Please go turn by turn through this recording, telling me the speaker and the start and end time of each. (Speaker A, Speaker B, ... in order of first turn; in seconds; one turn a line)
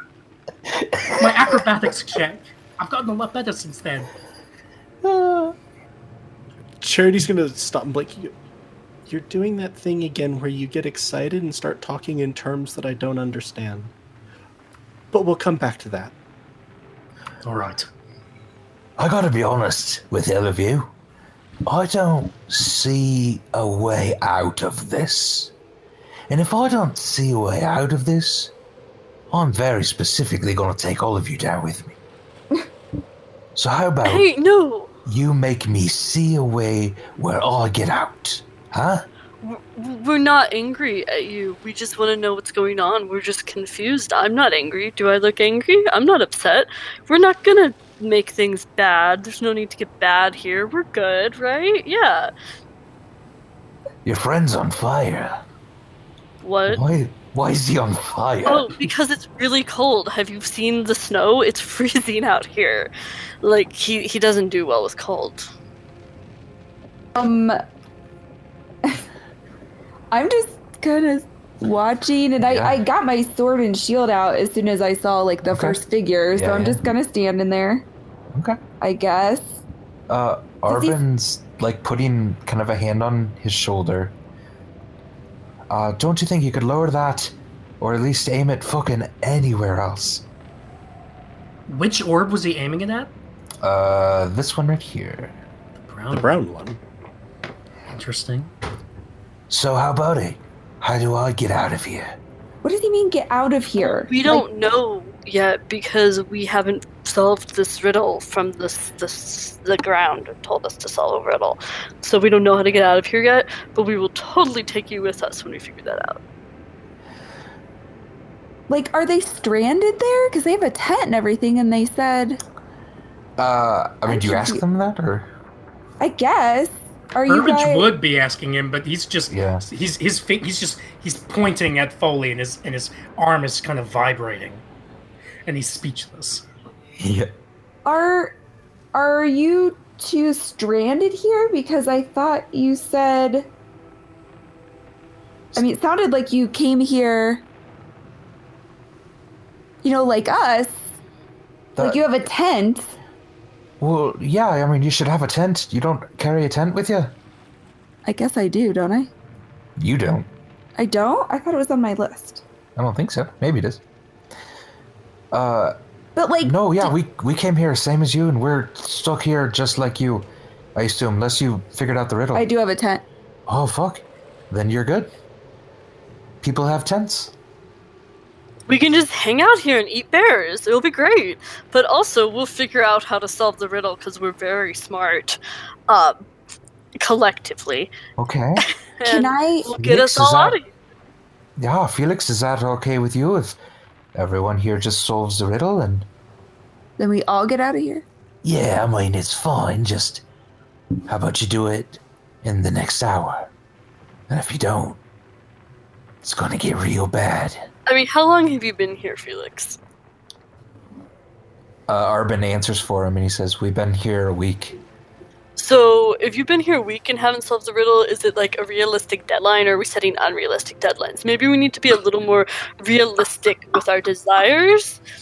Speaker A: 0.9-1.3
Speaker B: 1.1-4.1
Speaker A: 5.0-5.5
Speaker C: 6.8-8.3
Speaker C: 9.1-13.9
Speaker C: 15.1-16.1
Speaker B: 17.4-17.9
Speaker A: 19.0-20.9
Speaker A: 21.6-25.5
Speaker A: 26.3-28.5
Speaker A: 29.3-32.0
Speaker A: 33.6-34.2
Speaker D: 34.0-34.9
Speaker A: 35.1-39.1
Speaker D: 39.4-52.3
Speaker A: 54.0-55.4
Speaker D: 56.4-56.8
Speaker A: 56.7-58.7
Speaker D: 58.4-62.9
Speaker D: 63.4-65.5
Speaker E: 67.1-67.6
Speaker E: 70.1-77.9
Speaker A: 72.4-72.8
Speaker A: 75.5-75.8
Speaker A: 76.3-76.8
Speaker A: 78.3-78.6
Speaker E: 78.8-79.6
Speaker A: 80.1-84.2
Speaker E: 80.7-81.0
Speaker A: 85.7-90.2
Speaker B: 91.7-93.1
Speaker A: 93.6-95.3
Speaker B: 95.9-96.4
Speaker C: 96.1-96.8
Speaker B: 97.9-98.5
Speaker A: 99.5-102.1
Speaker E: 102.6-104.4
Speaker D: 103.8-116.2
Speaker E: 118.7-122.4
Speaker A: 123.4-125.3
Speaker E: 124.1-124.6
Speaker E: 126.0-127.9
Speaker B: 127.3-134.6
Speaker A: 129.3-129.6
Speaker B: 135.4-136.4
Speaker A: 137.0-137.3
Speaker E: 137.8-138.3
Speaker E: 138.9-143.5
Speaker E: 145.6-147.4
Speaker E: 149.8-150.8
Speaker A: 151.8-152.0
Speaker E: 151.8-152.9
Speaker A: 153.8-157.1
Speaker E: 158.1-159.1
Speaker A: 159.8-160.3
Speaker E: 160.8-162.4
Speaker A: 162.8-163.8
Speaker A: 165.3-165.7
Speaker E: 166.2-166.9
Speaker A: 166.4-172.4
Speaker E: 172.3-173.0
Speaker A: 173.5-175.1
Speaker A: 176.4-177.3
Speaker D: 178.7-186.2
Speaker D: 187.0-187.9
Speaker A: 188.2-188.6
Speaker D: 189.0-190.7
Speaker E: 189.1-189.7
Speaker A: 189.8-190.6
Speaker A: 191.6-193.6
Speaker A: 194.1-196.1
Speaker E: 197.0-198.1
Speaker A: 198.4-200.2
Speaker A: 201.1-203.5
Speaker A: 204.3-205.0
Speaker A: 206.2-207.7
Speaker D: 207.9-209.8
Speaker A: 211.9-214.8
Speaker D: 215.6-225.0